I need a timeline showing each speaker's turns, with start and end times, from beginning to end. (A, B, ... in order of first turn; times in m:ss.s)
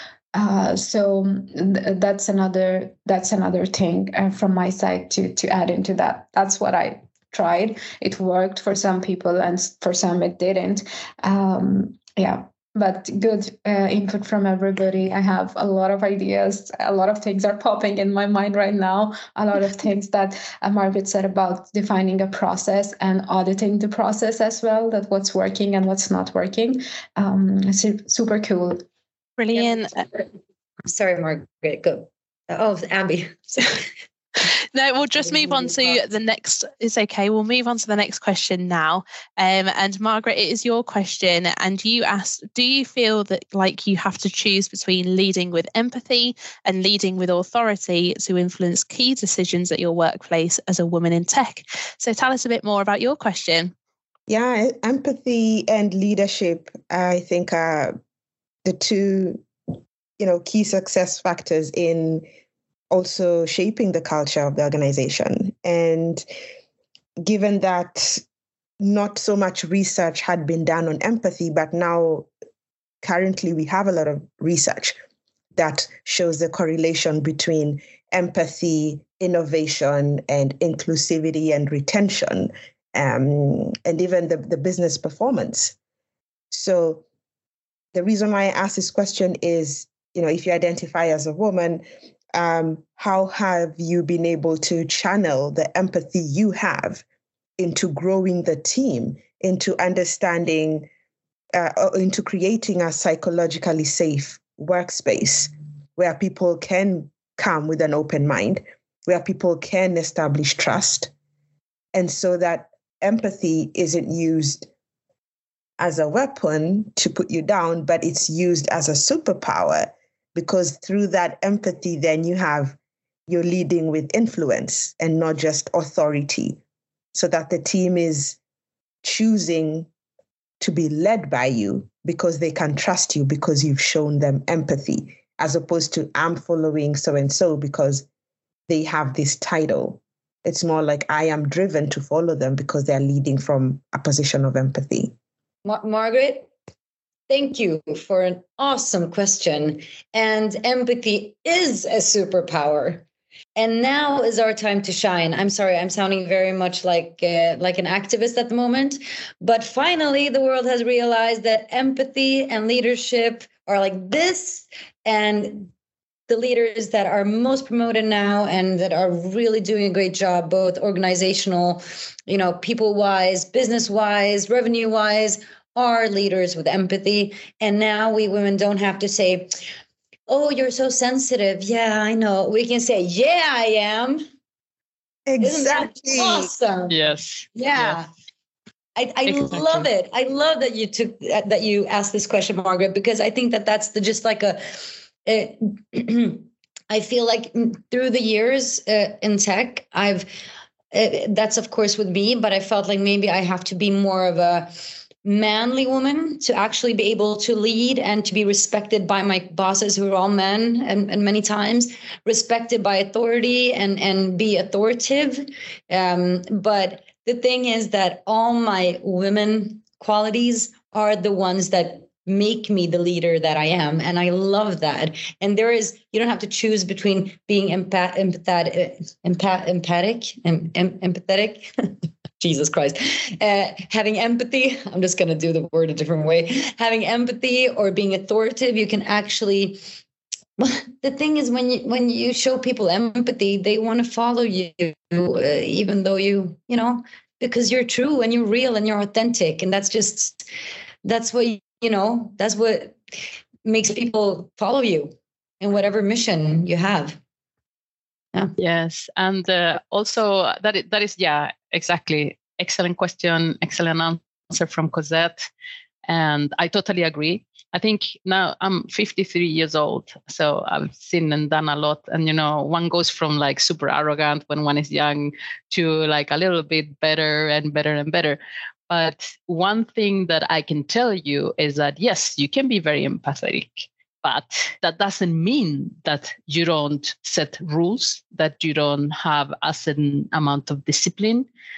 0:00.3-0:28.8 A
0:29.4-0:30.0 B
0:29.6-0:30.2 C
0:30.8-0:33.8 C
0:34.7-0:53.7 B
0:35.3-0:35.9 C
0:54.3-0:58.0 D
0:58.6-0:59.4 D
1:00.2-1:02.2 D
1:02.9-1:06.2 D
1:07.2-1:08.2 D
1:08.8-1:12.3 D
1:13.0-1:15.0 D
1:15.6-1:25.8 D
1:26.5-1:27.0 D
1:27.9-1:37.0 D
1:37.6-1:40.9 D
1:41.6-1:51.1 D
1:52.0-1:54.7 D
1:55.8-2:02.8 D
2:03.3-2:06.6 D
2:07.1-2:08.4 D
2:09.0-2:09.9 D
2:10.6-2:18.1 D
2:18.7-2:25.1 D
2:25.6-2:26.5 C
2:27.3-2:33.0 C
2:33.6-2:45.7 C
2:46.3-2:59.5 C
3:00.3-3:04.2 C
3:05.3-3:06.5 D
3:05.4-3:06.9 C
3:06.9-3:08.0 E
3:07.5-3:08.1 C
3:09.0-3:20.3 C
3:09.3-3:09.9 E
3:20.9-3:59.9 C
4:00.6-4:10.4 C
4:11.0-4:13.0 C
4:13.6-4:17.2 C
4:18.6-4:25.5 E
4:26.1-4:51.5 E